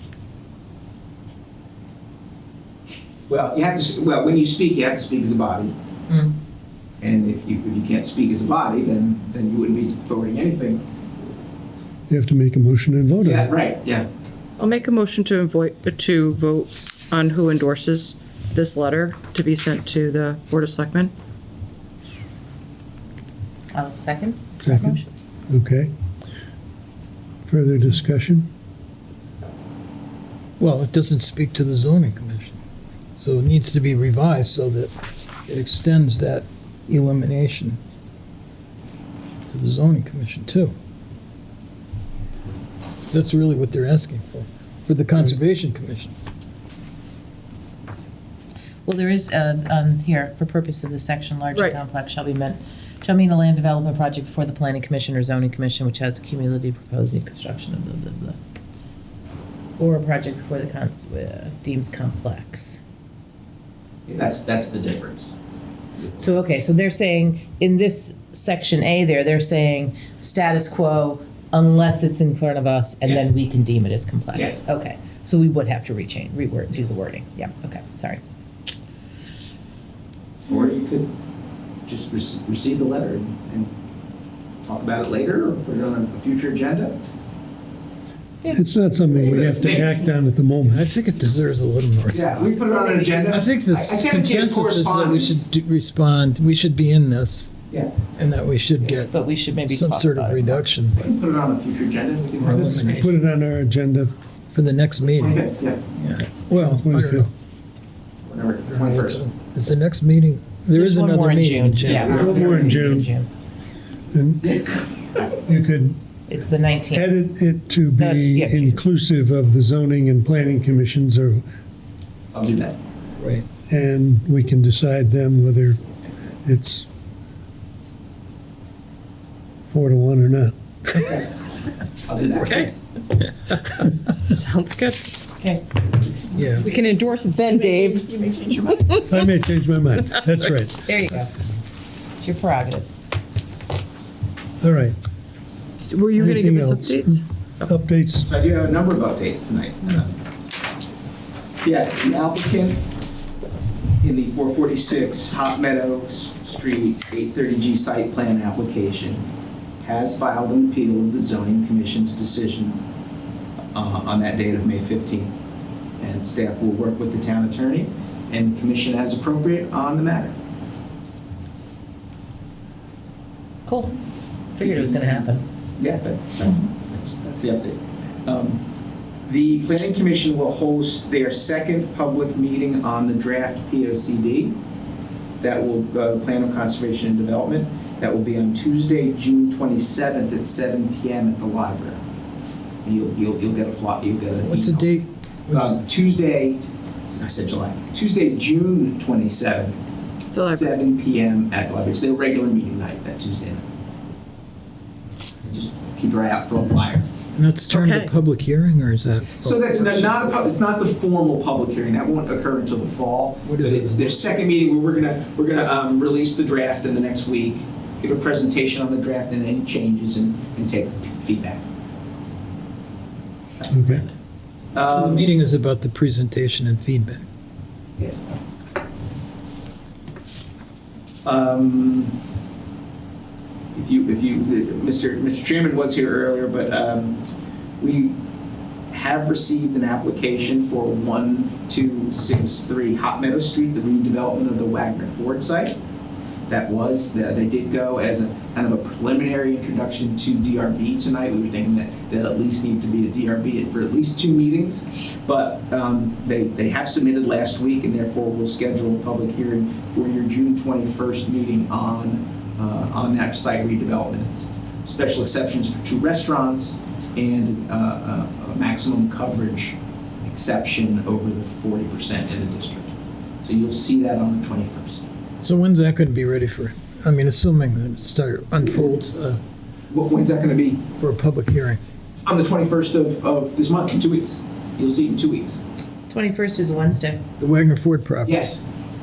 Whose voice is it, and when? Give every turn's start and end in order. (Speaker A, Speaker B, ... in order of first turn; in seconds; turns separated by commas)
Speaker A: 3.3-5.7, Speaker B: 6.1-6.4, Speaker A: 7.0-10.8, Speaker C: 12.1-13.5, Speaker A: 13.2-14.1, Speaker D: 14.6-21.1, Speaker B: 23.7-25.1, Speaker C: 24.6-25.9, Speaker C: 27.4-28.5, Speaker E: 30.6-32.6, Speaker E: 33.2-37.8, Speaker E: 39.5-40.7, Speaker E: 43.1-46.1, Speaker B: 48.9-58.4, Speaker B: 59.8-62.8, Speaker A: 64.1-65.4, Speaker B: 66.2-78.2, Speaker A: 74.3-74.6, Speaker A: 80.5-81.1, Speaker A: 81.9-83.7, Speaker A: 84.6-87.0, Speaker C: 88.5-90.9, Speaker A: 89.1-90.1, Speaker E: 90.7-92.5, Speaker A: 92.1-95.5, Speaker E: 93.2-101.1, Speaker A: 97.7-98.0, Speaker B: 99.1-100.7, Speaker A: 100.9-103.0, Speaker E: 102.4-103.1, Speaker C: 102.8-104.2, Speaker E: 104.5-105.4, Speaker A: 105.2-105.8, Speaker E: 106.0-107.3, Speaker C: 106.5-107.3, Speaker A: 108.2-109.2, Speaker E: 108.7-112.2, Speaker B: 110.7-113.3, Speaker A: 111.9-112.8, Speaker C: 112.0-113.1, Speaker C: 114.1-114.7, Speaker A: 114.6-115.3, Speaker C: 115.5-116.0, Speaker B: 116.3-117.1, Speaker C: 116.9-121.4, Speaker B: 118.0-118.8, Speaker A: 122.3-122.8, Speaker E: 123.2-123.5, Speaker C: 123.7-125.8, Speaker C: 126.5-126.9, Speaker C: 129.7-131.1, Speaker A: 132.0-132.7, Speaker D: 132.4-132.8, Speaker D: 133.5-133.8, Speaker D: 134.3-135.2, Speaker B: 135.4-135.7, Speaker E: 136.3-136.7, Speaker D: 136.6-139.2, Speaker B: 137.6-138.7, Speaker C: 139.1-140.9, Speaker D: 140.2-140.5, Speaker B: 140.8-141.5, Speaker B: 142.2-142.9, Speaker C: 144.6-145.0, Speaker D: 145.8-147.7, Speaker C: 146.1-148.3, Speaker A: 148.3-150.2, Speaker A: 151.6-152.8, Speaker A: 154.0-159.3, Speaker A: 159.8-162.8, Speaker A: 163.7-165.3, Speaker A: 166.0-170.3, Speaker B: 173.7-173.9, Speaker B: 174.6-175.4, Speaker A: 174.6-178.7, Speaker A: 179.2-184.6, Speaker A: 185.4-192.0, Speaker A: 192.8-194.9, Speaker E: 194.4-195.8, Speaker A: 195.5-199.8, Speaker D: 200.3-200.7, Speaker A: 200.5-203.7, Speaker A: 205.4-207.1, Speaker E: 207.3-210.5, Speaker D: 207.7-208.1, Speaker A: 209.4-221.6, Speaker E: 213.4-214.2, Speaker A: 223.6-224.2, Speaker C: 223.7-224.0, Speaker A: 224.7-225.3, Speaker E: 224.8-227.3, Speaker A: 228.0-228.4, Speaker A: 231.2-232.2, Speaker A: 233.7-237.2, Speaker A: 237.8-238.2, Speaker A: 238.9-245.8, Speaker A: 246.5-272.9, Speaker A: 273.4-275.1, Speaker E: 275.4-279.4, Speaker A: 279.9-280.9, Speaker E: 281.0-281.8, Speaker A: 282.2-285.6, Speaker B: 286.1-287.2, Speaker E: 287.4-288.4, Speaker A: 288.2-288.6